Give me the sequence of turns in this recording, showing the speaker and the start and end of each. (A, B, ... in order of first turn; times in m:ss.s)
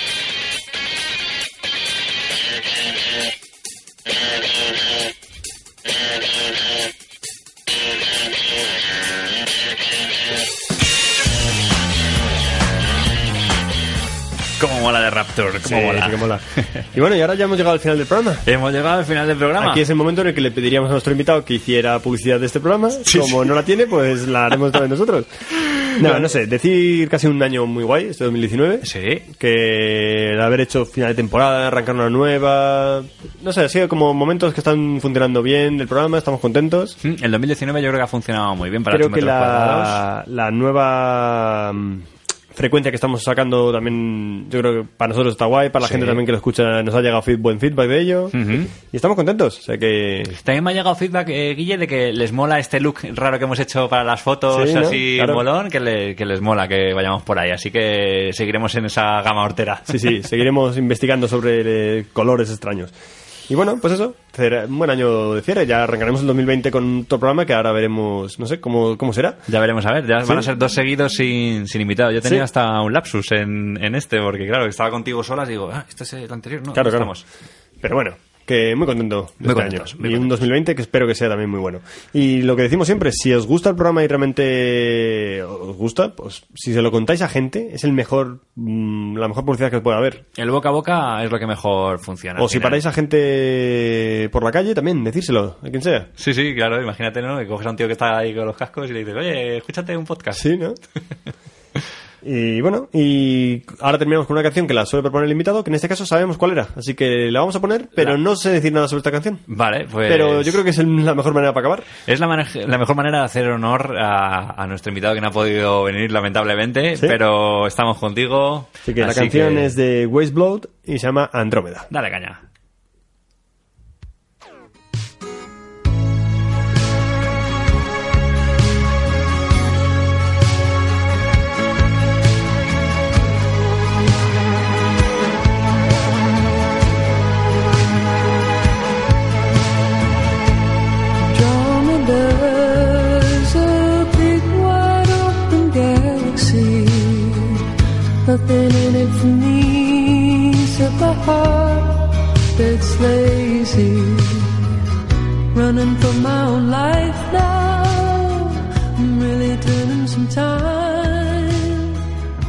0:14.6-0:16.2 A
0:15.6-0:18.5 B
0:18.5-0:19.8 A
0:19.6-0:25.4 B
0:23.0-0:23.5 A
0:25.6-0:26.3 A
0:26.0-0:37.0 B
0:28.8-0:29.3 A
0:37.0-0:40.0 A
0:38.9-0:50.4 B
0:45.8-0:46.2 A
0:48.3-0:48.7 A
0:50.3-1:00.0 A
0:54.5-0:55.4 B
0:59.9-1:02.9 B
1:03.5-1:09.5 B
1:09.5-1:17.3 A
1:16.7-1:17.1 B
1:17.8-1:30.2 B
1:19.4-1:20.5 A
1:30.4-1:32.8 A
1:32.4-1:36.1 B
1:36.2-1:40.4 A
1:40.3-1:40.8 B
1:42.2-1:49.4 B
1:49.5-1:50.6 A
1:50.1-1:51.9 B
1:52.1-1:59.7 A
1:58.9-2:01.9 B
2:01.9-2:02.4 A
2:21.2-2:27.7 C
2:28.2-2:34.8 C
2:35.5-2:42.1 C